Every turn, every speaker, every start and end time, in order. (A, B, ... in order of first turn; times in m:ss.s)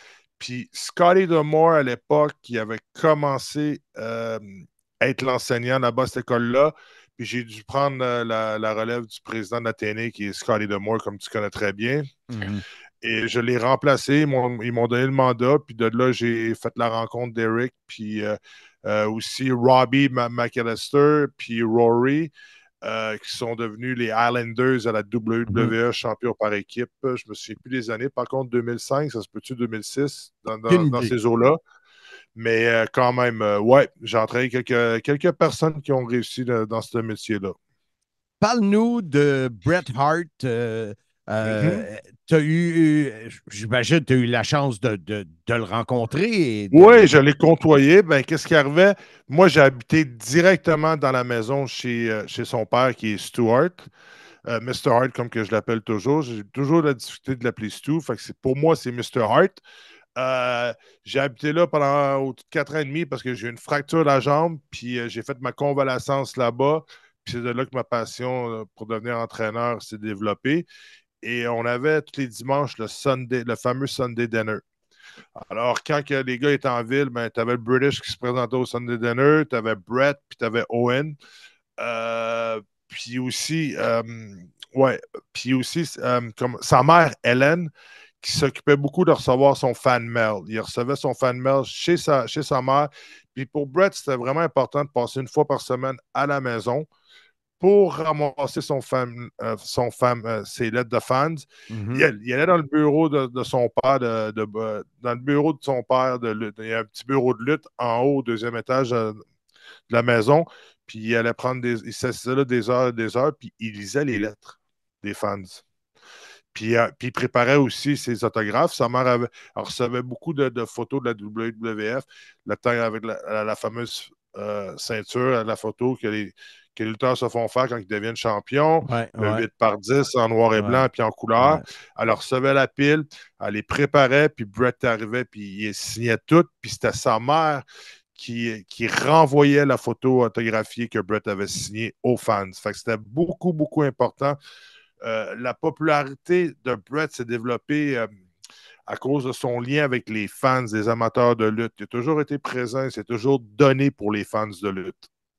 0:00.4-0:12.1 A
0:12.3-0:12.6 B
0:13.0-0:22.3 A
0:22.8-0:31.6 A
0:25.5-0:25.7 B
0:30.7-0:31.1 B
0:32.3-0:37.6 A
0:38.4-0:47.0 B
0:41.4-0:41.8 A
0:46.7-0:53.9 A
0:54.5-0:59.6 A
1:00.2-1:10.6 A
1:11.2-1:14.6 A
1:15.5-1:21.2 A
1:21.8-1:27.7 A
1:28.2-1:36.8 A
1:37.6-1:49.2 A
1:41.7-1:42.0 B
1:49.9-1:55.6 A
1:56.5-2:17.6 A
2:08.8-2:09.4 B
2:10.6-2:10.8 B
2:11.4-2:11.6 B
2:18.2-2:24.4 A
2:25.0-2:28.1 A
2:28.9-2:35.0 A